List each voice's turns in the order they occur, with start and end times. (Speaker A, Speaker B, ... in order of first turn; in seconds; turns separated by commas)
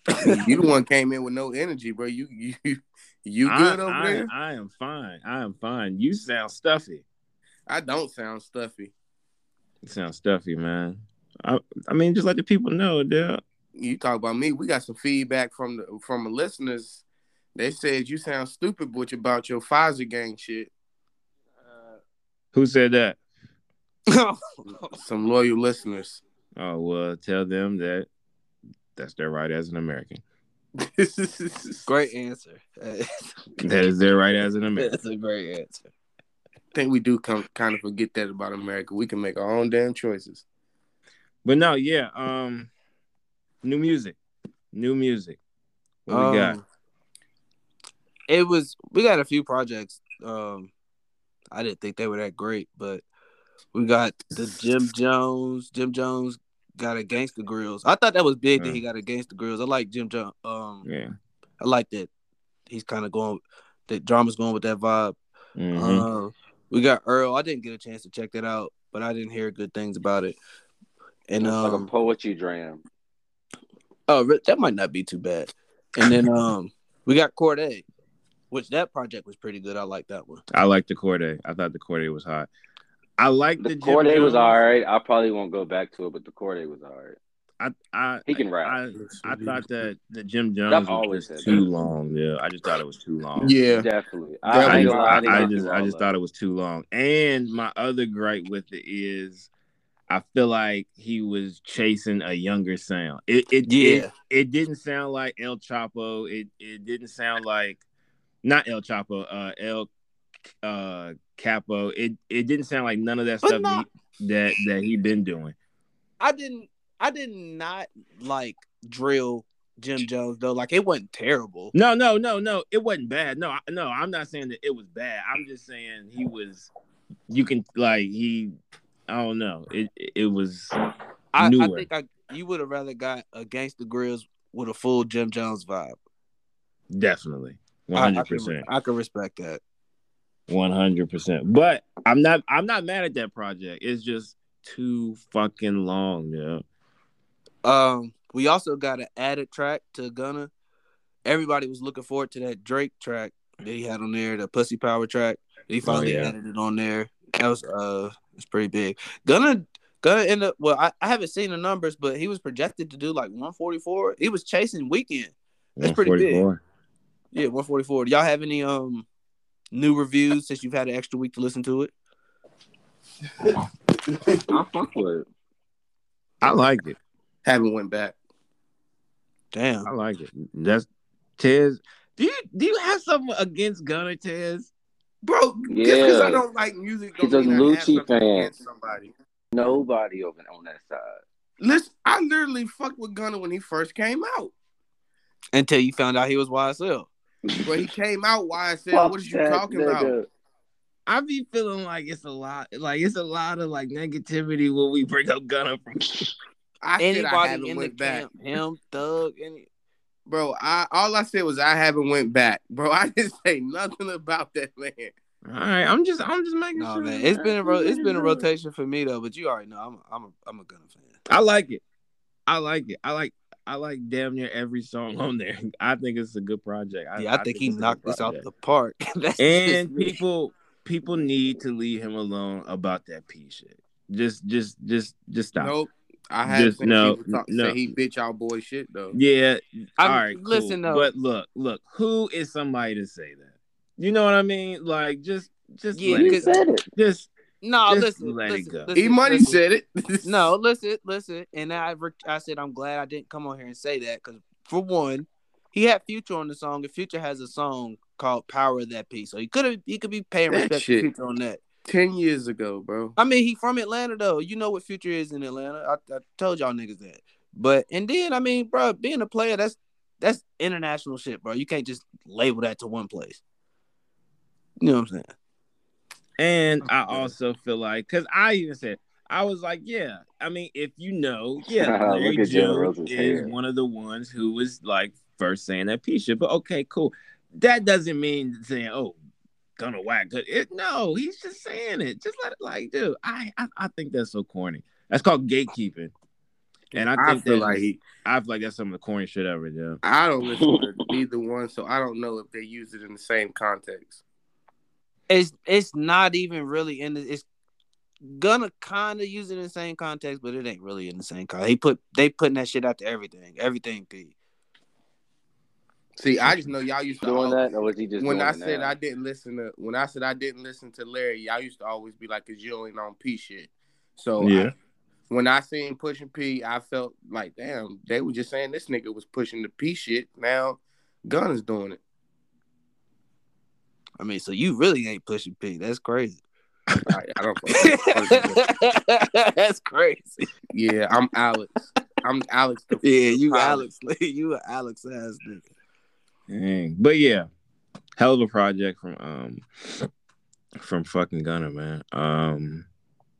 Speaker A: 0.2-4.3, Speaker B: 3.4-7.0, Speaker A: 7.7-8.9, Speaker B: 9.8-13.4, Speaker A: 13.7-17.0, Speaker A: 17.5-20.7, Speaker B: 22.5-23.2, Speaker C: 24.1-25.0, Speaker A: 24.9-26.2, Speaker B: 26.6-28.1, Speaker B: 29.0-30.2, Speaker A: 30.8-31.9, Speaker C: 31.9-33.6, Speaker B: 33.6-34.9, Speaker C: 34.8-35.9, Speaker A: 36.7-40.4, Speaker B: 41.4-42.7, Speaker B: 43.6-44.1, Speaker B: 44.7-45.4, Speaker B: 46.0-46.6, Speaker C: 46.1-46.6, Speaker C: 48.3-50.7, Speaker C: 51.5-53.0, Speaker C: 53.7-60.8, Speaker B: 58.5-58.8, Speaker B: 60.8-61.1, Speaker C: 61.6-62.1, Speaker C: 62.7-65.2, Speaker B: 65.5-66.1, Speaker C: 65.7-70.4, Speaker C: 71.3-71.9, Speaker D: 71.4-72.8, Speaker C: 74.1-77.8, Speaker C: 78.5-80.4, Speaker B: 80.5-82.5, Speaker B: 83.2-84.6, Speaker D: 83.6-87.2, Speaker B: 87.6-93.5, Speaker D: 88.3-88.8, Speaker A: 88.9-89.6, Speaker D: 90.7-91.6, Speaker A: 93.4-93.8, Speaker D: 93.7-96.0, Speaker A: 94.4-95.5, Speaker B: 94.5-99.5, Speaker B: 100.1-107.8, Speaker C: 103.7-104.1, Speaker B: 108.4-109.9, Speaker B: 110.6-115.5, Speaker C: 113.4-113.8, Speaker C: 116.2-121.7, Speaker B: 121.7-126.7, Speaker B: 127.3-128.5, Speaker B: 129.1-130.7, Speaker C: 131.3-135.9, Speaker B: 131.4-131.8, Speaker B: 136.9-138.7, Speaker C: 137.9-139.6, Speaker B: 140.5-146.6, Speaker C: 147.6-150.5, Speaker C: 151.2-166.4, Speaker B: 155.8-156.3, Speaker B: 165.8-166.6, Speaker C: 167.3-169.1, Speaker C: 169.7-171.9, Speaker D: 174.5-175.2, Speaker B: 176.4-177.0, Speaker A: 177.4-178.1, Speaker C: 179.5-179.9, Speaker B: 179.8-180.9, Speaker B: 181.4-184.7, Speaker A: 185.2-189.1, Speaker D: 185.7-186.4, Speaker D: 187.2-188.5, Speaker D: 189.5-191.2, Speaker A: 191.6-194.5, Speaker C: 195.5-197.1, Speaker A: 197.6-200.1, Speaker D: 198.9-200.2, Speaker B: 201.1-206.3, Speaker A: 206.8-208.3, Speaker C: 207.0-209.7, Speaker A: 210.3-215.1, Speaker B: 215.4-218.4, Speaker C: 216.8-221.2, Speaker B: 221.3-221.8, Speaker B: 222.5-228.4, Speaker C: 227.2-230.1, Speaker B: 229.4-235.7, Speaker A: 235.6-239.2, Speaker B: 236.4-237.8, Speaker B: 239.1-247.3, Speaker C: 240.0-241.1, Speaker C: 245.9-246.6, Speaker D: 246.2-246.8, Speaker C: 247.6-249.6, Speaker B: 247.9-248.9, Speaker A: 248.9-250.4, Speaker C: 250.2-261.6, Speaker A: 260.5-261.1, Speaker A: 261.9-263.1, Speaker C: 263.2-273.4, Speaker C: 274.8-275.3, Speaker B: 276.4-289.2, Speaker A: 276.9-277.3, Speaker D: 281.8-283.5, Speaker B: 289.8-296.1, Speaker B: 296.9-300.0, Speaker A: 296.9-298.0, Speaker A: 300.0-304.2, Speaker C: 305.3-307.4, Speaker C: 308.4-314.3, Speaker A: 316.2-317.7, Speaker B: 316.4-316.7, Speaker D: 317.2-318.9, Speaker A: 318.2-324.7, Speaker B: 324.4-324.7, Speaker A: 325.3-332.0, Speaker C: 334.2-336.4, Speaker A: 337.1-338.6, Speaker C: 337.7-340.4, Speaker A: 340.7-343.9, Speaker C: 343.0-345.6, Speaker B: 346.5-347.5, Speaker B: 348.1-350.1, Speaker B: 350.8-352.9